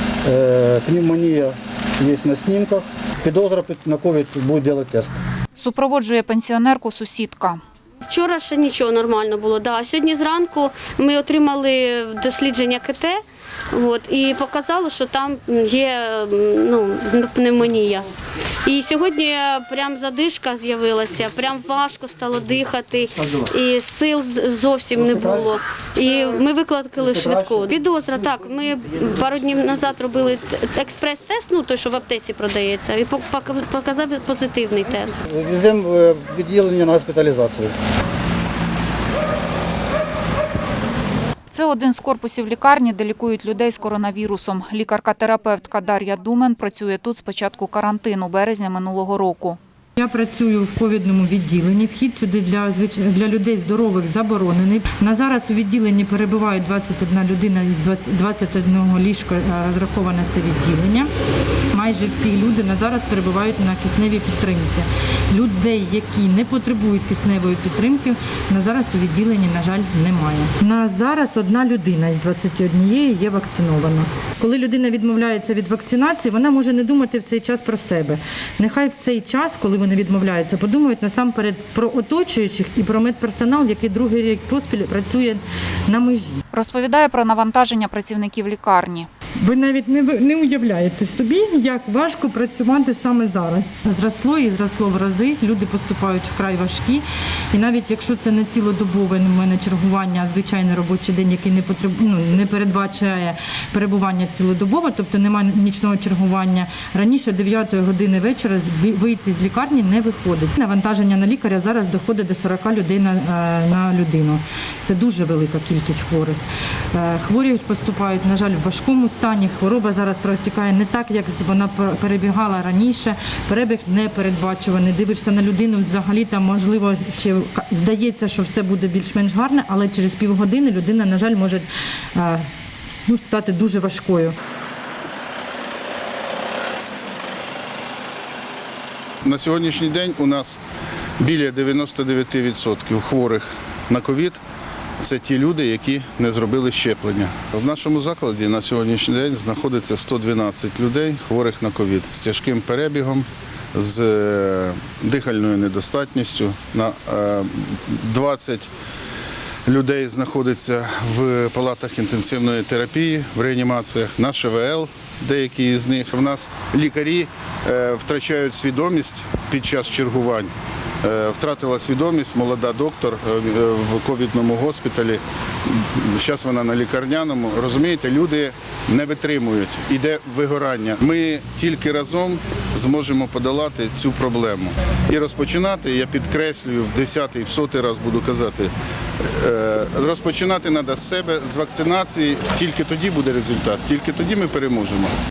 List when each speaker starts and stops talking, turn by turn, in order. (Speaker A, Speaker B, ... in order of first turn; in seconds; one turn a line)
Speaker A: 0.2-5.2
Speaker B: 5.5-7.6
Speaker C: 8.0-13.2
Speaker C: 13.7-18.1
Speaker C: 18.6-35.2
Speaker A: 25.1-25.4
Speaker A: 27.0-27.5
Speaker A: 35.2-37.8
Speaker B: 41.5-49.6
Speaker D: 50.0-61.1
Speaker D: 61.7-86.4
Speaker B: 86.5-89.1
Speaker D: 89.4-116.4
Speaker D: 116.9-132.5
Speaker D: 133.1-134.3
Speaker E: 139.2-140.6
Speaker E: 141.2-144.4
Speaker E: 145.0-158.7
Speaker E: 159.7-195.1